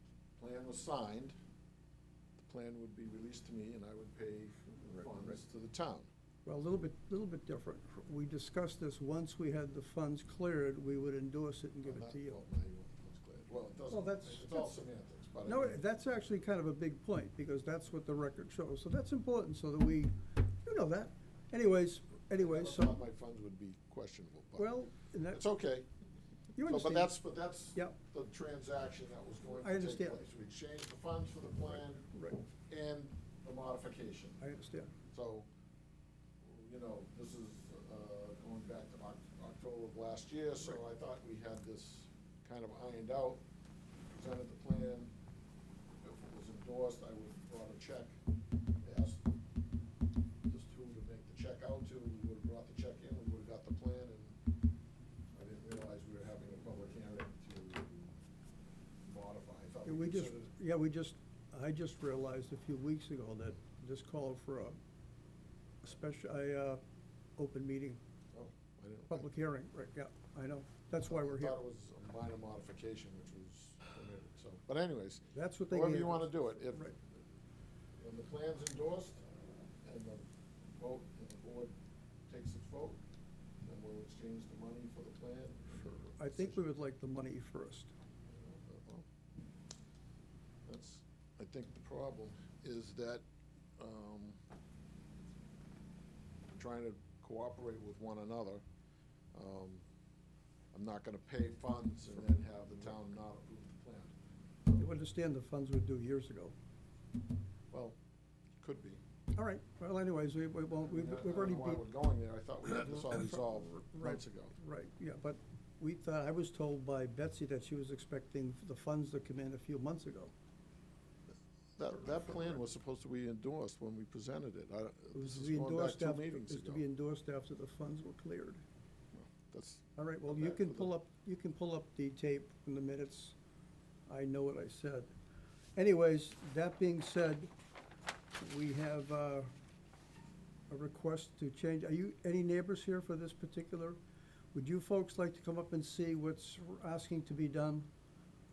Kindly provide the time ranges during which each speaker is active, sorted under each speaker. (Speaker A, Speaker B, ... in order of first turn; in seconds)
Speaker A: 0.4-1.4, 2.4-6.1, 11.8-15.8, 22.3-24.7, 25.3-25.9, 26.6-32.1, 32.7-34.4, 35.1-35.5, 36.4-43.4, 44.1-45.1, 46.0-48.1, 48.8-49.3, 50.4-54.4, 55.3-58.1, 59.1-60.5, 68.3-69.3, 71.0-77.1, 78.0-79.2, 79.8-81.7, 82.3-83.0, 83.6-86.6, 88.2-89.1, 90.7-93.2, 93.8-94.4, 96.5-98.6, 99.3-99.8, 100.7-104.1, 107.7-108.0, 108.6-109.0, 110.9-114.5, 121.8-126.8, 129.1-130.9
Speaker B: 4.8-5.3, 6.5-12.4, 13.9-14.8, 15.4-20.1, 20.6-23.0, 24.6-25.5, 26.5-27.2, 29.6-30.2, 32.0-32.4, 34.4-34.9, 59.8-64.8, 65.8-66.8, 67.4-68.0, 69.1-71.6, 75.3-76.9, 85.8-87.9, 104.7-106.5, 109.3-111.9, 112.7-120.3, 125.1-128.6, 130.0-133.3, 134.1-135.1, 135.8-137.5, 138.4-139.5, 140.7-144.0, 144.5-147.9